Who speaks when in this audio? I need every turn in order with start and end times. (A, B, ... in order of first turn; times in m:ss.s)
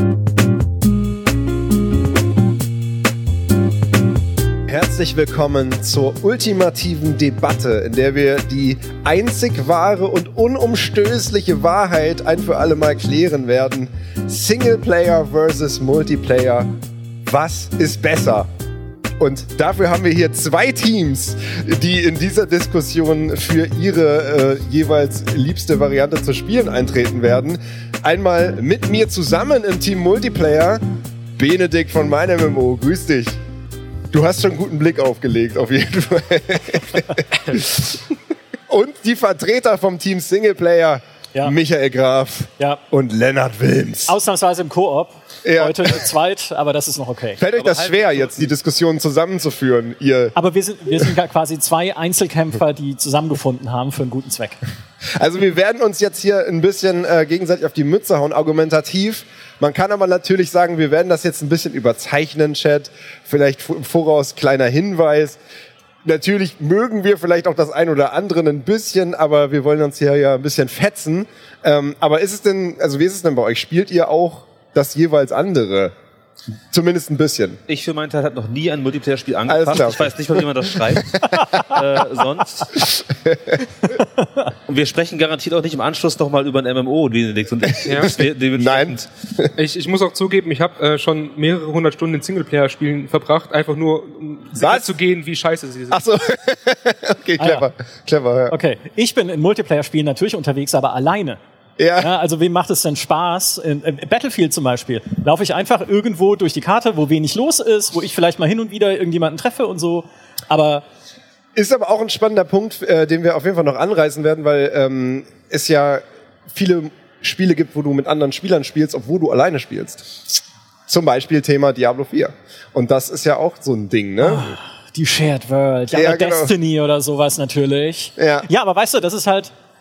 0:04.7-0:16.7 A
0:17.2-0:18.5 A
0:19.2-0:30.8 A
0:31.4-0:33.4 A
0:34.1-0:38.0 A
0:38.7-0:44.1 A
0:44.0-0:47.4 B
0:45.4-0:46.0 A
0:47.4-0:50.3 A
0:47.6-0:48.4 C
0:50.3-0:54.6 B
0:55.2-1:05.4 A
1:06.0-1:15.9 A
1:16.7-1:17.6 A
1:17.7-1:22.9 C
1:19.5-1:21.6 A
1:22.8-1:23.6 A
1:24.7-1:29.0 C
1:27.7-1:29.5 A
1:27.8-1:28.2 D
1:29.6-1:36.0 D
1:34.6-1:34.9 A
1:35.9-1:38.6 A
1:37.4-1:37.6 B
1:38.5-1:41.4 B
1:41.8-1:42.1 A
1:42.0-1:50.8 B
1:51.5-2:00.2 A
2:00.9-2:04.5 A
2:04.2-2:09.5 B
2:05.9-2:06.5 A
2:08.2-2:08.5 A